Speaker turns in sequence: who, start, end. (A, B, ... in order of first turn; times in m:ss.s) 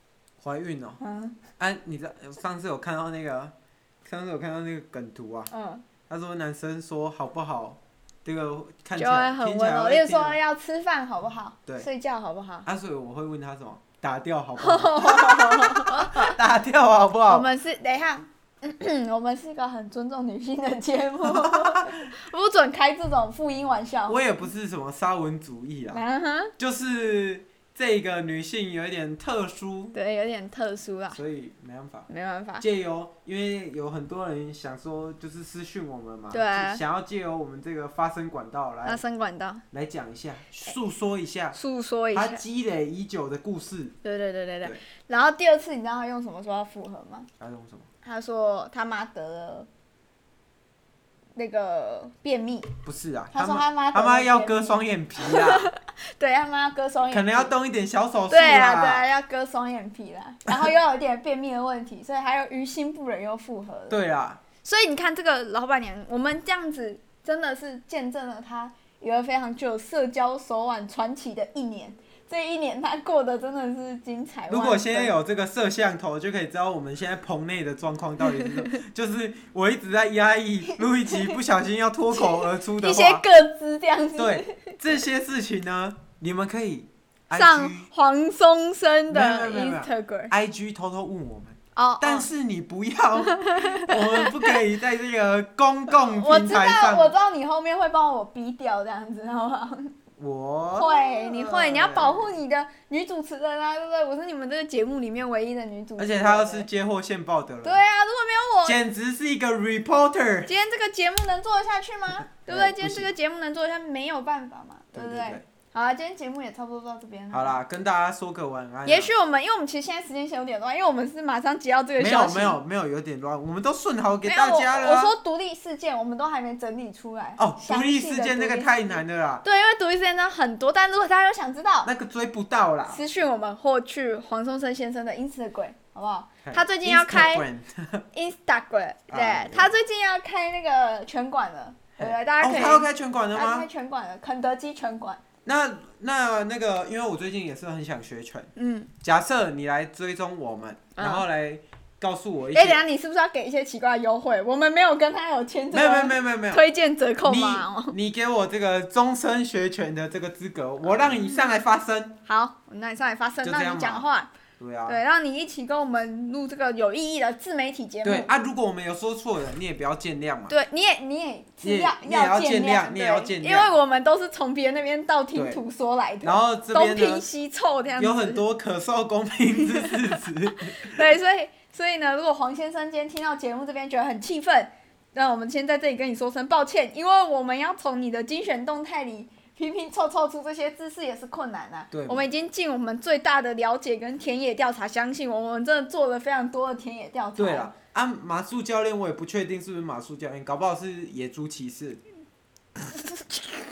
0:00.4-0:01.0 A
0:01.0-0:01.4 B
0:01.6-0:05.5 A
0:05.5-0:05.8 B
0:06.1-0:10.4 A
0:09.0-0:12.7 B
0:12.6-0:17.5 A
0:14.6-0:16.4 B
0:17.3-0:24.4 B
0:21.2-0:22.1 A
0:24.1-0:26.0 A
0:25.9-0:26.5 B
0:26.6-0:30.0 A
0:29.9-0:31.2 B
0:31.1-0:32.1 A
0:32.1-0:32.6 B
0:32.6-0:39.0 A
0:36.3-0:36.8 B
0:38.8-0:39.6 B
0:39.7-0:41.6 A
0:41.5-0:42.4 B
0:42.1-0:43.9 A
0:44.0-0:47.3 B
0:47.4-0:47.9 A
0:48.0-0:49.7 B
0:51.4-0:52.7 B
0:52.8-0:55.7 A
0:53.3-0:57.5 B
0:57.1-0:59.0 A
0:58.3-1:04.0 B
1:03.9-1:04.4 A
1:04.6-1:15.1 B
1:14.5-1:23.2 A
1:18.2-1:18.8 B
1:20.7-1:21.4 B
1:22.1-1:24.8 B
1:24.2-1:27.9 A
1:27.3-1:30.3 B
1:29.1-1:37.1 A
1:31.7-1:32.3 B
1:33.2-1:34.6 B
1:36.0-1:39.9 B
1:40.2-1:42.3 A
1:40.7-1:46.7 B
1:46.0-1:47.8 A
1:47.6-1:48.8 B
1:48.6-1:50.5 A
1:50.4-1:57.6 B
1:52.4-1:53.1 A
1:54.9-1:55.4 A
1:57.3-1:59.1 A
1:58.8-2:02.6 B
2:02.0-2:05.1 A
2:04.2-2:11.9 B
2:07.4-2:09.4 A
2:11.8-2:13.0 A
2:12.9-2:17.4 B
2:16.4-2:18.0 A
2:18.1-2:25.2 B
2:19.1-2:19.7 A
2:22.0-2:23.7 A
2:25.4-2:28.5 A
2:28.6-2:28.9 B
2:29.0-2:32.8 A
2:31.0-2:31.2 B
2:32.5-2:38.0 B
2:35.7-2:36.6 A
2:37.2-2:42.2 A
2:41.0-2:41.3 B
2:42.2-2:44.3 B
2:43.4-2:44.0 A
2:44.6-2:45.0 A
2:44.8-2:48.3 B
2:48.0-2:50.5 A
2:50.5-2:58.4 B
2:51.6-2:53.7 A
2:55.3-2:55.6 A
2:56.2-2:57.3 A
2:58.0-3:01.1 A
2:59.6-3:00.2 B
3:00.8-3:17.7 B
3:11.9-3:12.2 A
3:17.4-3:22.0 A
3:23.0-3:23.6 B